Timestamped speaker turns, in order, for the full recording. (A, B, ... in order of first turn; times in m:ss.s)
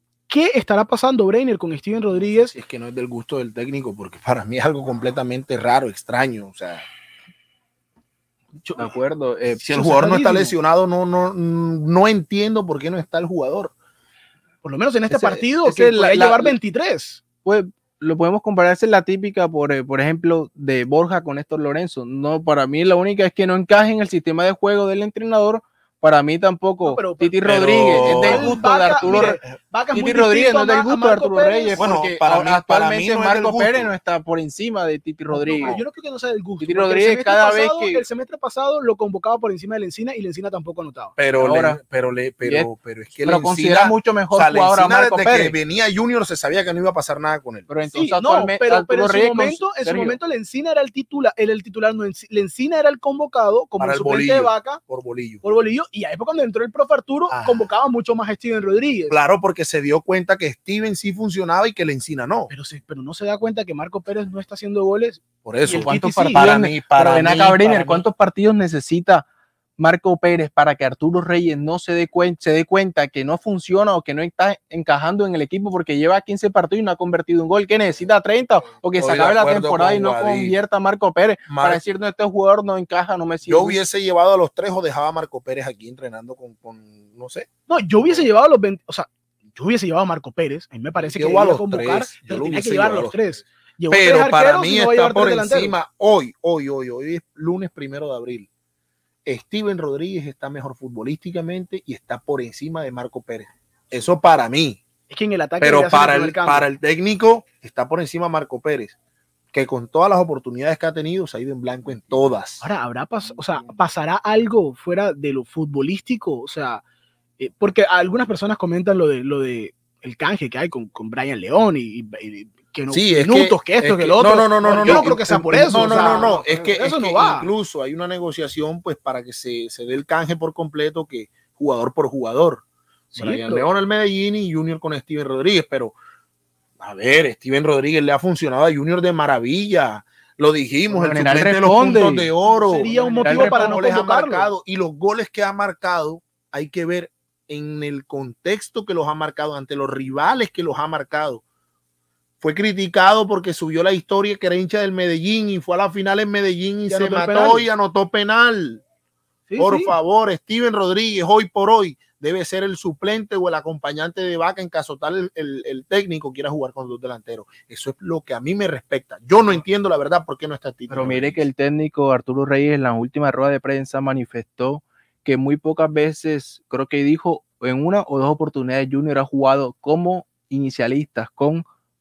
0:00.3-0:02.5 A
0:02.5-0:06.8 B
0:08.8-0:09.6 C
0:09.5-0:13.7 B
0:09.7-0:10.5 A
0:14.6-0:17.2 A
0:15.1-0:16.2 B
0:16.0-0:16.5 C
0:17.4-0:29.4 C
0:26.8-0:27.3 A
0:27.4-0:28.6 B
0:27.9-0:31.8 A
0:29.9-0:35.8 C
0:31.8-0:33.9 B
0:35.3-0:35.8 B
0:35.4-0:41.1 A
0:36.6-0:38.0 C
0:41.2-0:47.7 B
0:41.4-0:41.8 C
0:42.4-0:42.7 C
0:43.2-0:45.6 C
0:47.7-0:50.2 C
0:47.9-0:54.8 A
0:53.8-0:55.4 B
0:55.4-0:59.2 A
0:57.3-0:57.7 B
0:59.1-1:02.5 B
1:02.5-1:06.5 A
1:05.4-1:08.0 B
1:05.7-1:09.2 C
1:09.8-1:23.8 C
1:18.9-1:20.6 B
1:21.5-1:21.8 B
1:23.4-1:27.5 B
1:27.7-1:35.8 A
1:31.0-1:33.2 B
1:33.9-1:38.5 B
1:39.2-1:44.8 B
1:45.1-1:46.7 A
1:45.6-1:48.9 B
1:49.5-1:52.7 B
1:52.6-1:56.8 A
1:57.4-2:07.5 A
2:02.9-2:12.6 B
2:04.8-2:05.1 C
2:05.8-2:06.4 C
2:13.1-2:13.7 A
2:13.2-2:15.9 B
2:16.8-2:31.4 B
2:20.9-2:22.3 C
2:22.5-2:24.5 A
2:22.9-2:23.8 C
2:32.4-2:38.8 B
2:36.9-2:37.6 A
2:39.5-2:40.0 A
2:39.6-2:51.5 B
2:50.9-3:01.6 C